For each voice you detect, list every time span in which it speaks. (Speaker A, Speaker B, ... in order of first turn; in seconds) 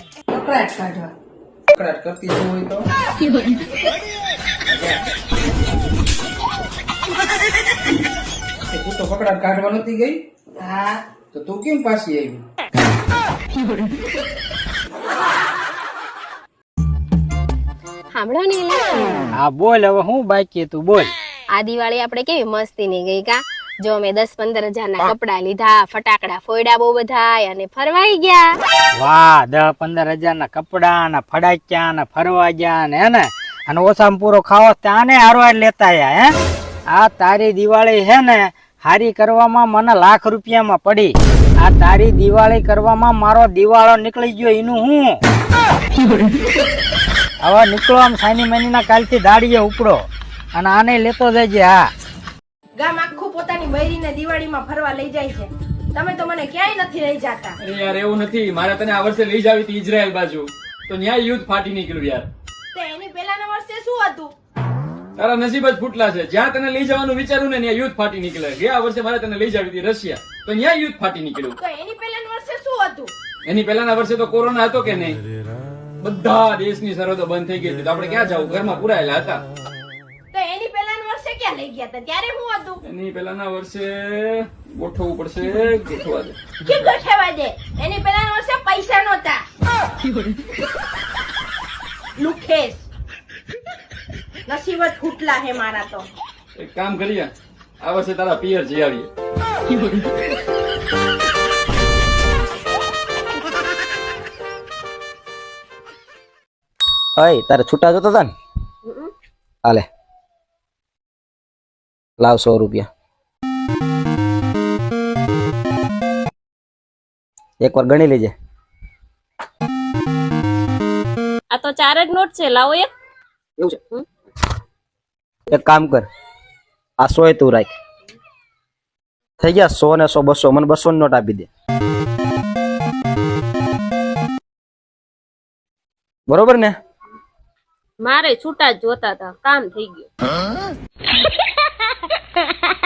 Speaker A: 1.7-2.9, 4.7-5.0, 8.7-10.2, 11.3-12.4
Speaker B: 18.1-19.2, 21.5-28.5
Speaker C: 19.4-21.1, 29.0-36.3, 36.9-45.1, 47.4-51.9
Speaker D: 52.8-57.6, 62.7-64.3, 71.6-73.1, 80.3-82.8, 86.6-89.5, 92.2-92.9, 94.5-96.1
Speaker E: 57.6-62.3, 65.2-71.6, 73.5-75.2, 76.0-79.4, 82.9-86.9, 96.6-99.1
Speaker F: 107.2-108.3, 112.2-112.9, 117.6-118.3, 125.5-126.1, 127.0-127.7, 129.4-131.5, 136.3-136.8
Speaker G: 108.9-109.1, 121.5-122.9, 138.0-140.1